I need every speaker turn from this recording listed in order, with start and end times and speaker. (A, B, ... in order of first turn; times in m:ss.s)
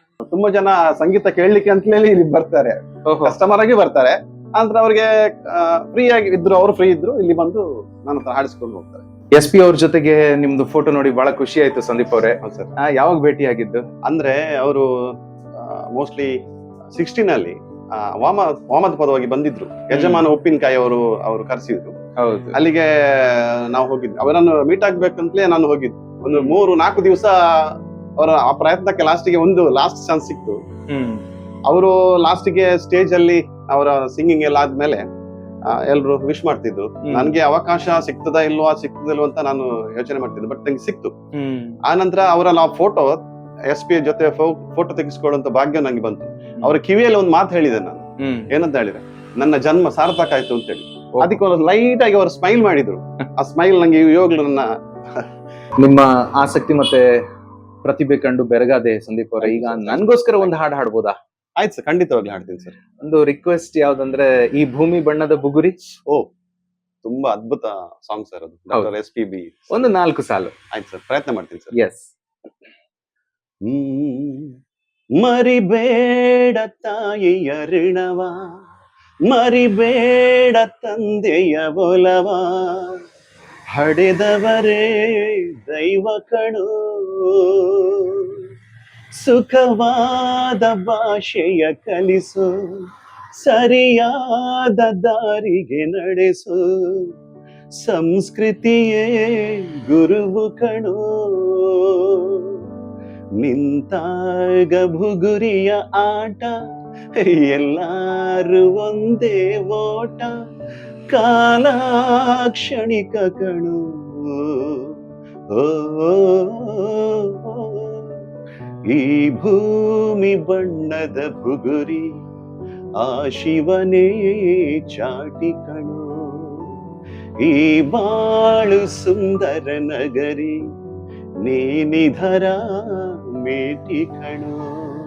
0:00.3-0:09.0 A
0:09.4-0:12.3 B
0:12.4-0:12.7 A
0:12.9-0:13.8 B
0:14.1-0:14.9 A
0:15.6-0:16.3 A
0:16.9-0:21.9 A
0:19.9-0:20.2 B
0:22.2-0:22.6 B
0:22.5-0:30.6 A
0:30.9-0:31.2 B
0:31.7-0:35.0 A
0:35.7-0:41.1 A
0:37.1-0:37.4 B
0:41.4-0:41.7 B
0:41.9-0:54.7 A
0:55.9-0:56.9 B
0:58.1-1:01.1 B
0:59.4-1:00.5 A
1:01.6-1:02.8 A
1:03.1-1:05.7 B
1:07.0-1:09.7 A
1:10.1-1:10.5 B
1:10.7-1:11.8 A
1:11.8-1:12.1 B
1:13.7-1:14.5 A
1:15.2-1:18.3 A
1:19.3-1:23.0 A
1:23.7-1:28.3 A
1:29.2-1:32.5 A
1:33.4-1:37.1 A
1:37.8-1:41.7 A
1:43.4-1:46.5 A
1:47.2-1:50.3 A
1:51.1-1:51.8 A
1:52.5-1:53.8 A
1:55.5-1:58.0 A
1:58.9-2:02.1 A
2:03.0-2:06.1 A
2:07.4-2:10.6 A
2:11.4-2:12.6 A
2:13.4-2:14.6 A